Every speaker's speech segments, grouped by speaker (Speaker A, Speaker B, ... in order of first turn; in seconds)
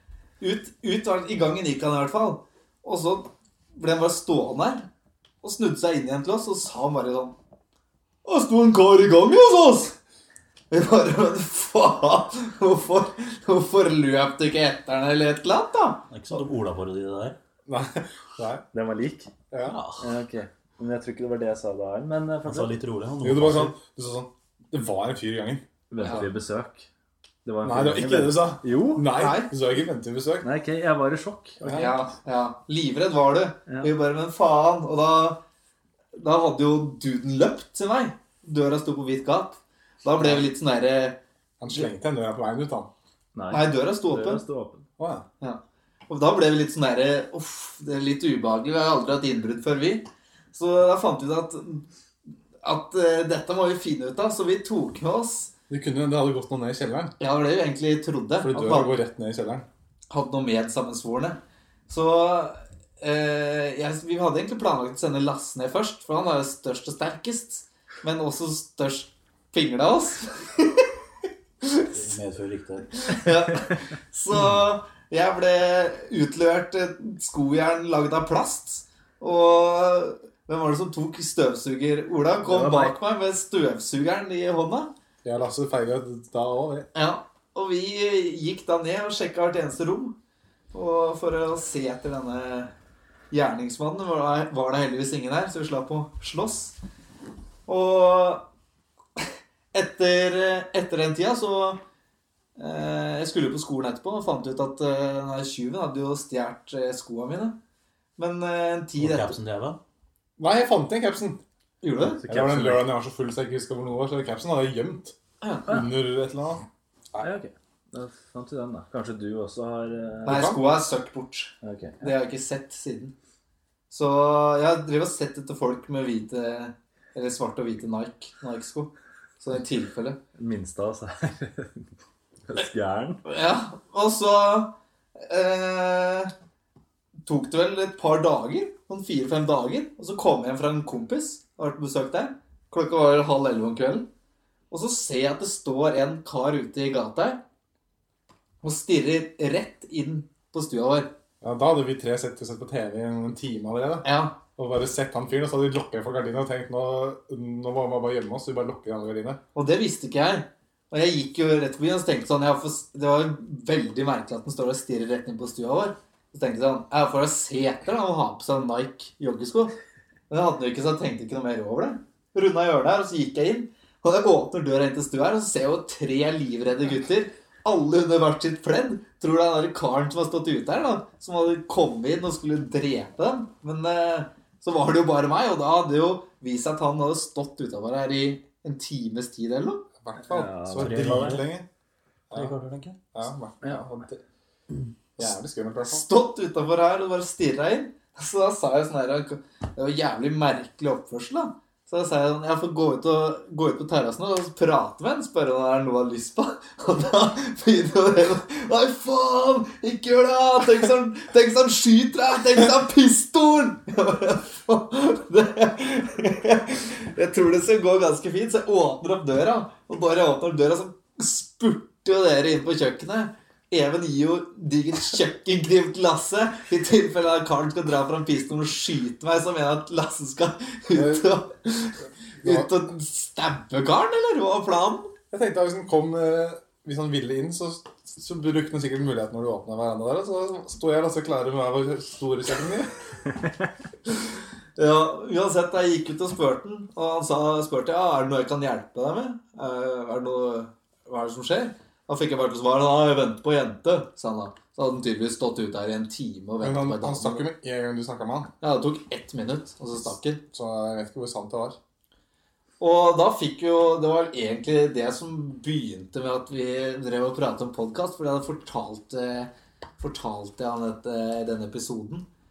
Speaker A: 0.4-4.9, 5.4-7.4, 8.2-10.0, 10.7-16.4, 26.0-26.3, 29.1-29.5, 31.7-35.4, 36.1-41.2, 43.5-44.4, 45.4-51.9, 52.6-55.5, 57.2-59.0, 60.1-70.9, 71.6-71.9, 73.0-84.9, 86.9-90.2, 90.7-92.7, 93.3-96.8, 97.7-98.5, 99.2-101.8, 102.6-107.6, 108.2-109.4, 111.8-112.2, 115.4-115.8, 120.2-123.1, 123.9-130.2, 133.3-136.3, 137.2-144.1, 144.7-147.4, 148.6-151.1, 154.0-154.4, 159.6-169.8, 170.3-189.9, 195.8-235.1, 244.8-257.5, 258.6-260.4, 262.8-272.3
Speaker B: 16.1-17.4, 19.6-20.1, 22.4-23.8, 71.9-72.9, 109.0-109.8, 190.8-191.5, 192.3-193.0
Speaker C: 17.7-18.6, 19.5-19.8, 23.2-25.6, 27.6-30.5, 31.6-31.9, 40.2-40.5, 41.6-42.9, 45.0-45.3, 55.7-57.1, 58.4-59.7, 85.2-86.9, 110.4-111.4, 112.2-115.2, 115.7-117.3, 120.3-120.6, 151.4-159.4, 190.0-191.7, 193.1-194.2, 195.2-196.0, 230.9-231.3, 232.4-232.7, 235.3-242.9, 256.6-258.5, 260.5-261.8
Speaker D: 18.7-19.3, 20.0-22.7, 25.9-26.9, 27.4-29.1, 30.4-31.9, 33.7-33.9, 43.4-44.9, 82.4-83.0, 112.2-112.9, 117.2-120.4, 121.6-122.1, 130.4-131.9, 132.5-133.2, 190.2-191.4, 193.6-194.0